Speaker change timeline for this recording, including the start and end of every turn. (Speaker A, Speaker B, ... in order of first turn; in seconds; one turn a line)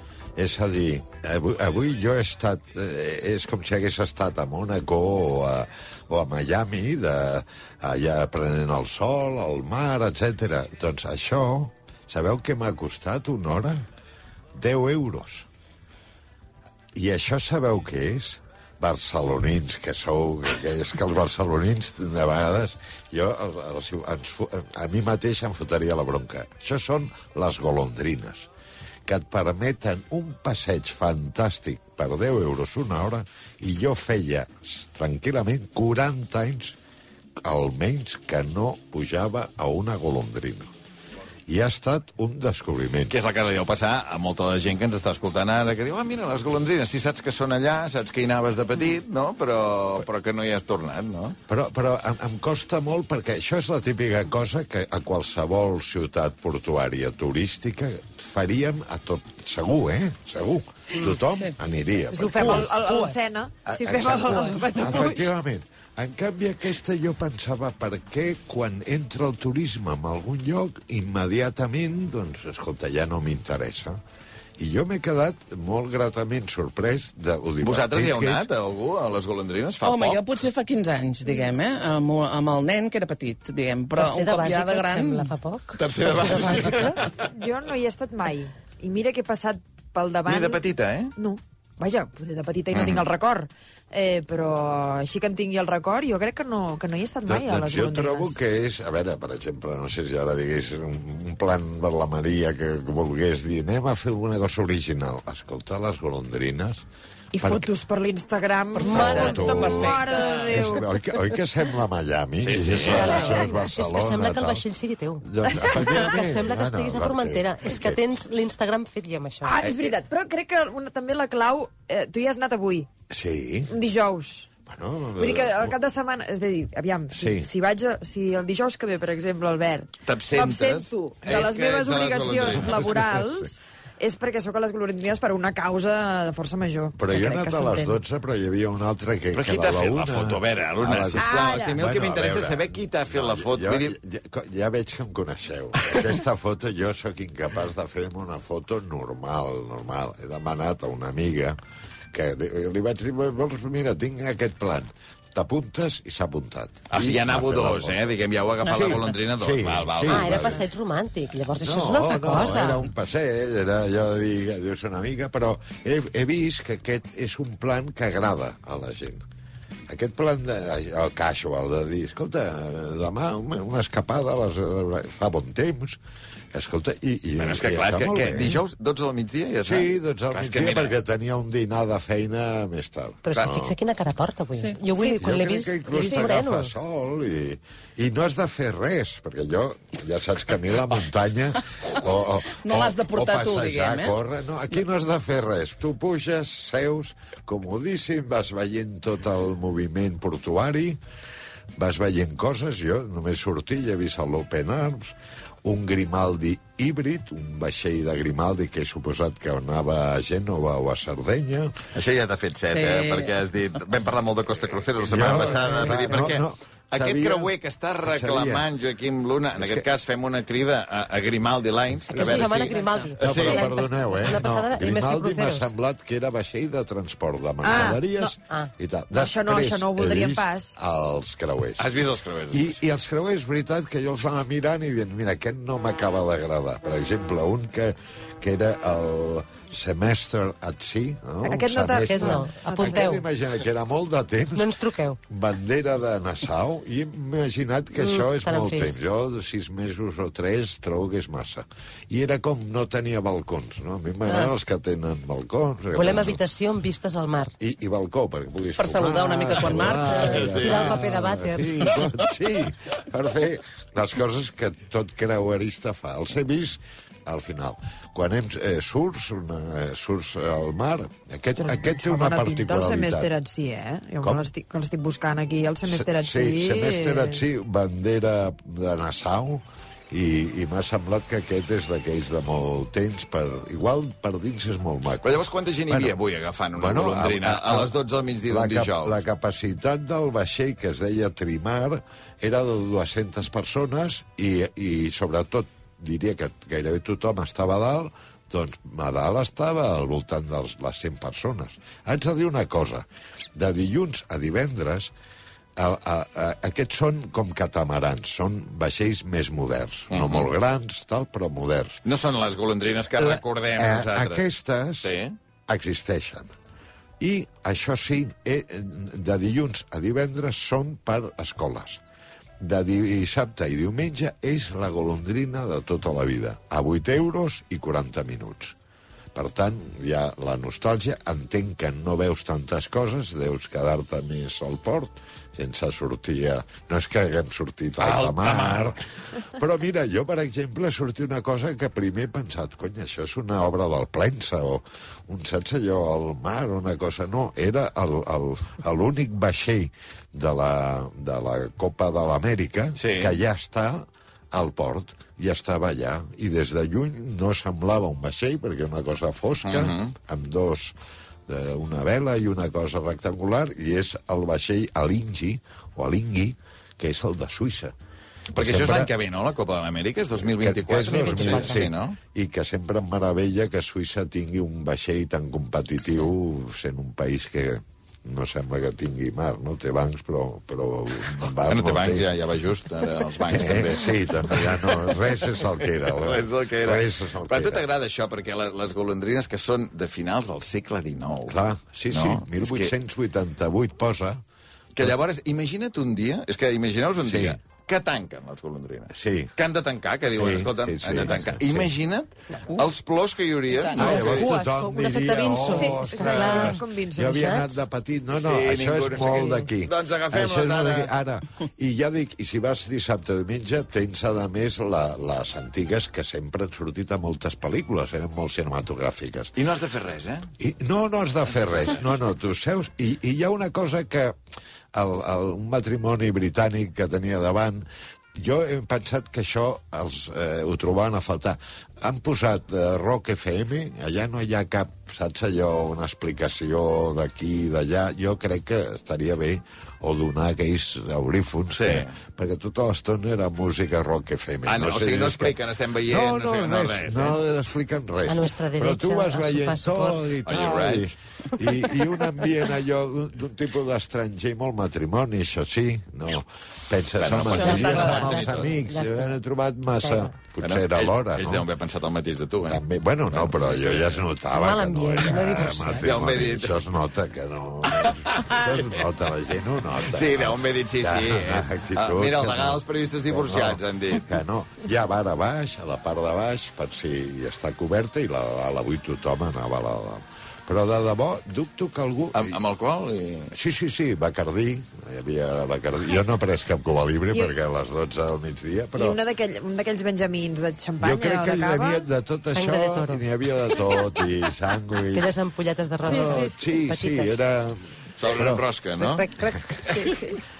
Speaker A: 0.3-13.8
Speaker A: 14.6-15.4
Speaker A: 16.9-28.5
Speaker A: 29.1-36.8
Speaker A: 37.4-40.7
Speaker A: 41.5-43.1
Speaker B: 43.1-51.4
Speaker A: 51.5-62.7
Speaker C: 61.3-61.5
Speaker D: 62.1-65.3
Speaker E: 62.2-63.2
Speaker A: 63.6-74.0
Speaker E: 64.3-64.7
Speaker A: 74.6-78.5
Speaker B: 77.6-80.3
Speaker C: 79.8-85.3
Speaker E: 83.9-87.0
Speaker B: 85.8-87.2
Speaker D: 87.2-90.6
Speaker B: 90.2-91.1
Speaker D: 91.2-98.4
Speaker B: 92.7-93.1
Speaker A: 97.2-106.8
Speaker D: 107.3-110.9
Speaker A: 107.4-107.7
Speaker C: 108.7-110.5
Speaker E: 108.8-109.2
Speaker A: 108.9-114.6
Speaker B: 112.4-113.2
Speaker E: 112.8-119.5
Speaker D: 113.0-113.4
Speaker A: 115.2-118.0
Speaker D: 115.6-116.0
Speaker D: 119.4-122.9
Speaker A: 119.6-119.9
Speaker A: 123.1-123.7
Speaker D: 123.7-124.5
Speaker A: 124.7-125.7
Speaker D: 125.2-138.0
Speaker A: 127.1-127.5
Speaker B: 130.0-133.1
Speaker A: 132.5-133.5
Speaker A: 137.0-151.6
Speaker B: 139.3-143.9
Speaker D: 141.2-141.8
Speaker A: 152.1-158.0
Speaker B: 156.9-160.6
Speaker A: 158.6-160.6
Speaker C: 158.7-159.0
Speaker E: 160.1-162.8
Speaker A: 161.6-169.2
Speaker A: 169.9-176.0
Speaker A: 176.5-178.6
Speaker B: 177.4-180.9
Speaker A: 179.6-183.7
Speaker E: 183.2-186.7
Speaker C: 184.5-184.8
Speaker A: 185.1-201.0
Speaker C: 192.5-194.1
Speaker A: 201.8-211.8
Speaker B: 211.9-223.7
Speaker C: 212.7-213.3
Speaker A: 215.0-218.7
Speaker A: 219.5-219.9
Speaker E: 222.1-225.7
Speaker C: 222.2-223.1
Speaker A: 223.2-231.9
Speaker D: 227.6-228.3
Speaker D: 229.1-230.7
Speaker B: 231.8-232.8
Speaker A: 232.5-244.7
Speaker D: 241.4-243.1
Speaker E: 242.0-243.2
Speaker E: 244.5-245.2
Speaker A: 245.3-256.4
Speaker E: 248.0-249.0
Speaker E: 255.9-257.5
Speaker A: 257.6-273.3
Speaker C: 258.8-260.6
Speaker E: 260.1-261.7
Speaker B: 260.2-261.0
Speaker D: 271.6-277.4
Speaker A: 275.8-286.1
Speaker B: 285.2-289.2
Speaker A: 286.7-287.9
Speaker A: 288.5-305.1
Speaker A: 305.8-312.0
Speaker B: 310.1-310.5
Speaker B: 312.0-314.4
Speaker A: 313.2-315.1
Speaker B: 315.0-315.4
Speaker A: 315.7-316.5
Speaker A: 317.2-322.0
Speaker A: 322.6-328.8
Speaker A: 329.3-360.9
Speaker B: 338.0-339.0
Speaker B: 353.0-353.4
Speaker B: 359.6-360.1
Speaker A: 361.5-367.9
Speaker B: 368.5-372.2
Speaker A: 368.5-369.1
Speaker A: 370.4-382.3
Speaker E: 371.1-371.9
Speaker B: 381.6-392.9
Speaker A: 383.4-387.8
Speaker A: 391.5-394.4
Speaker B: 394.9-404.5
Speaker A: 397.2-397.6
Speaker A: 399.1-399.5
Speaker A: 400.3-401.9
Speaker C: 403.7-404.2
Speaker E: 403.9-407.8
Speaker A: 403.9-419.5
Speaker D: 404.2-404.8
Speaker D: 405.6-407.6
Speaker B: 408.3-411.1
Speaker B: 419.5-420.5
Speaker A: 420.6-424.3
Speaker A: 424.9-461.7
Speaker B: 441.7-442.1
Speaker B: 444.6-447.4
Speaker E: 448.2-450.6
Speaker B: 450.4-451.1
Speaker E: 451.6-451.9
Speaker B: 457.1-458.7
Speaker C: 457.5-458.2
Speaker E: 457.6-459.4
Speaker E: 459.9-460.4
Speaker B: 460.6-464.2
Speaker A: 462.6-482.6
Speaker E: 464.5-466.3
Speaker B: 465.2-466.8
Speaker B: 467.9-469.0
Speaker B: 469.9-474.3
Speaker B: 482.3-483.5
Speaker A: 483.5-489.2
Speaker D: 488.9-492.0
Speaker A: 491.0-495.3
Speaker E: 492.5-493.2
Speaker E: 495.1-497.4
Speaker D: 496.0-496.6
Speaker A: 496.1-498.6
Speaker B: 498.2-499.3
Speaker E: 499.0-500.0
Speaker D: 499.9-500.4